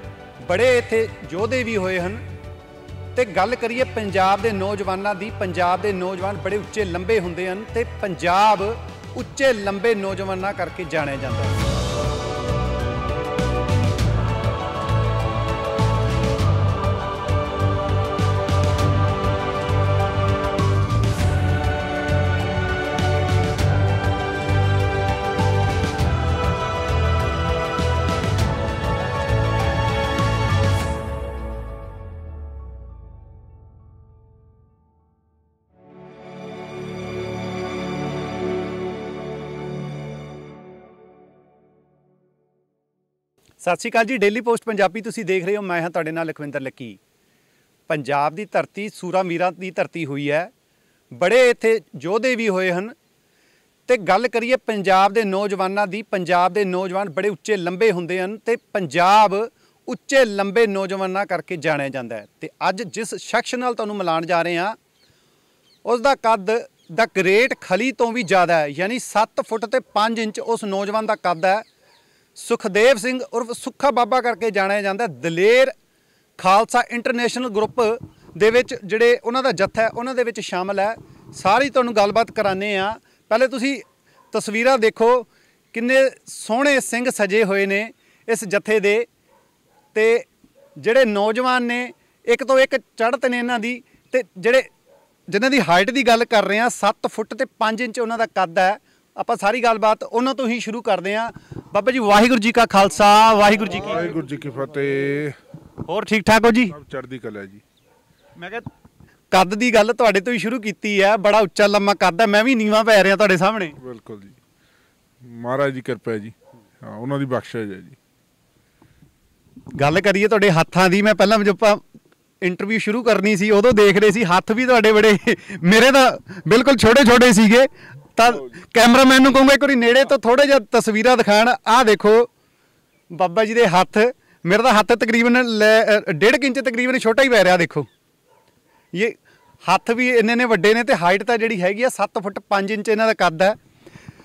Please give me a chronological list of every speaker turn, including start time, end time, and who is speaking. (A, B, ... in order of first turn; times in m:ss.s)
0:00.4-0:02.2 A
0:03.1-0:11.6 A
0:43.6-0:47.0 A
0:47.9-0:50.5 A
0:51.1-0:52.9 A
0:53.9-1:04.8 A
1:05.8-1:11.6 A
1:12.4-1:15.7 A
1:16.4-1:29.1 A
1:29.9-1:34.7 A
1:35.3-1:44.1 A
1:43.6-1:45.4 B
1:45.8-1:46.7 A
1:46.7-1:47.6 B
1:48.4-1:48.7 A
1:49.3-1:53.8 A
1:53.8-1:54.4 B
1:55.2-1:58.0 B
1:59.7-2:01.8 A
2:02.4-2:12.3 A
2:08.3-2:08.5 B
2:13.1-2:17.9 A
2:18.9-2:23.6 A